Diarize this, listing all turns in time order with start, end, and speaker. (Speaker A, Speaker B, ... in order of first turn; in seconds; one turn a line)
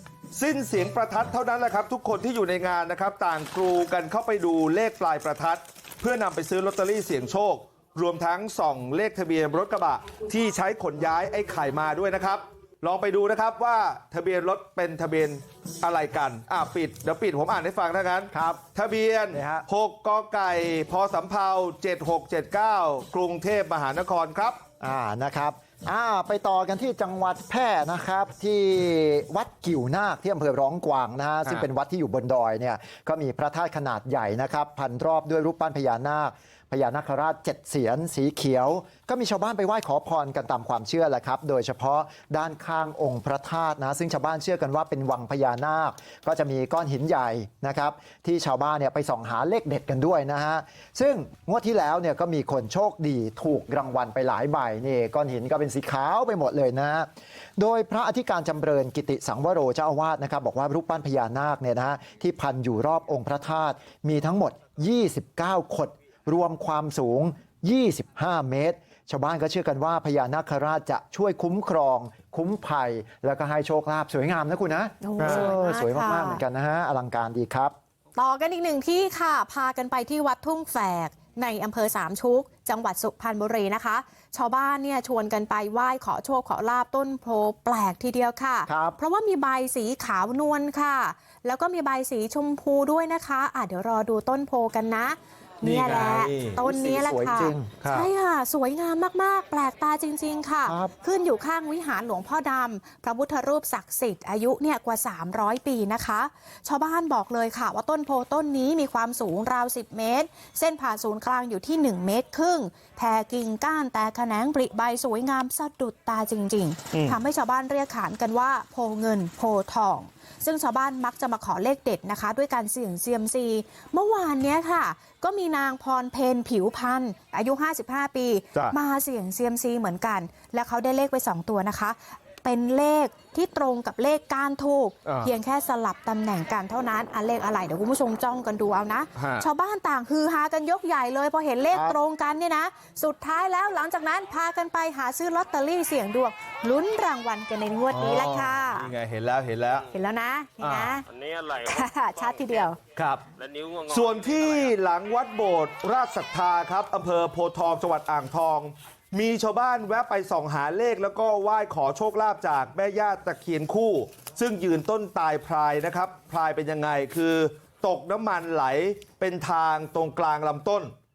Speaker A: 0.3-24.6
Speaker B: 18.3-18.6
Speaker B: 19.3-19.6
Speaker B: 24.8-77.7
Speaker C: 75.0-76.4
Speaker A: 75.2-75.5
Speaker C: 78.2-148.9
Speaker B: 88.7-89.0
Speaker A: 95.6-96.6
Speaker B: 96.6-97.7
Speaker A: 97.8-98.1
Speaker B: 100.7-100.9
Speaker A: 135.1-135.3
Speaker A: 139.2-139.5
Speaker B: 141.7-142.0
Speaker A: 147.9-149.9
Speaker C: 149.9-151.1
Speaker A: 150.6-150.9
Speaker D: 151.0-152.7
Speaker C: 151.6-152.8
Speaker A: 153.0-153.3
Speaker D: 153.4-154.7
Speaker A: 153.9-170.9